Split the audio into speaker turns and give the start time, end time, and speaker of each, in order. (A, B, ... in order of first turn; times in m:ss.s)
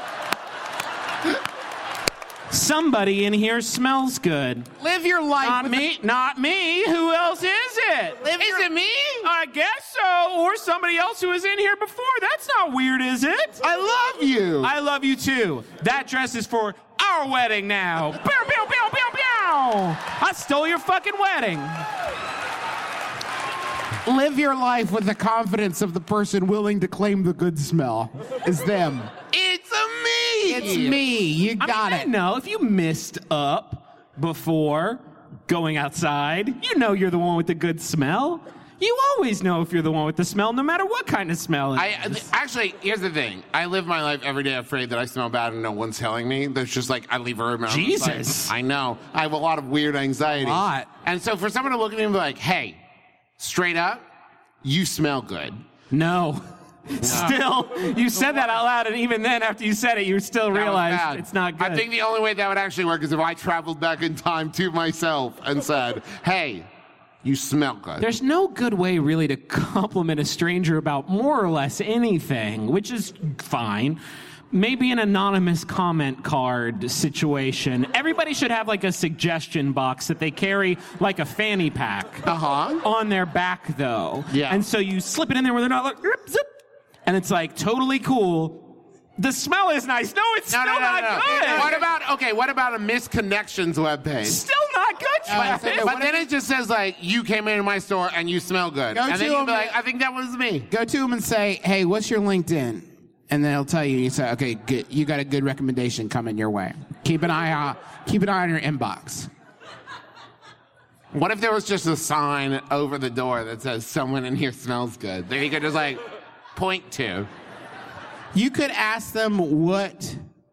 0:02.5-0:04.7 A
0:04.8-0:05.9 B
0:05.4-0:08.2 A
0:08.2-0:08.7 B
0:08.4-0:09.2 C
0:09.2-0:13.6 A
0:13.6-0:14.7 B
0:14.6-0:21.8 A
0:24.0-0:29.1 B
0:29.3-0:31.0 C
0:30.4-0:32.1 B
0:31.6-0:42.2 A
0:41.8-0:52.8 C
0:47.7-0:48.5 A
0:50.3-0:50.9 B
0:53.4-0:54.0 C
0:54.6-0:55.6 C
0:55.9-1:01.8 A
0:57.0-0:57.4 C
1:00.5-1:06.7 C
1:07.2-1:08.0 C
1:08.0-1:14.0 A
1:14.5-1:22.3 A
1:22.3-1:22.8 C
1:22.8-1:26.5 A
1:24.3-1:24.6 C
1:27.0-1:31.7 A
1:30.5-1:34.4 C
1:31.1-1:31.9 B
1:34.2-1:35.9 A
1:35.3-1:36.3 B
1:35.3-1:40.7 C
1:38.9-1:39.8 B
1:40.7-1:49.3 B
1:51.1-1:56.0 C
1:56.6-1:57.3 C
1:58.3-2:00.2 B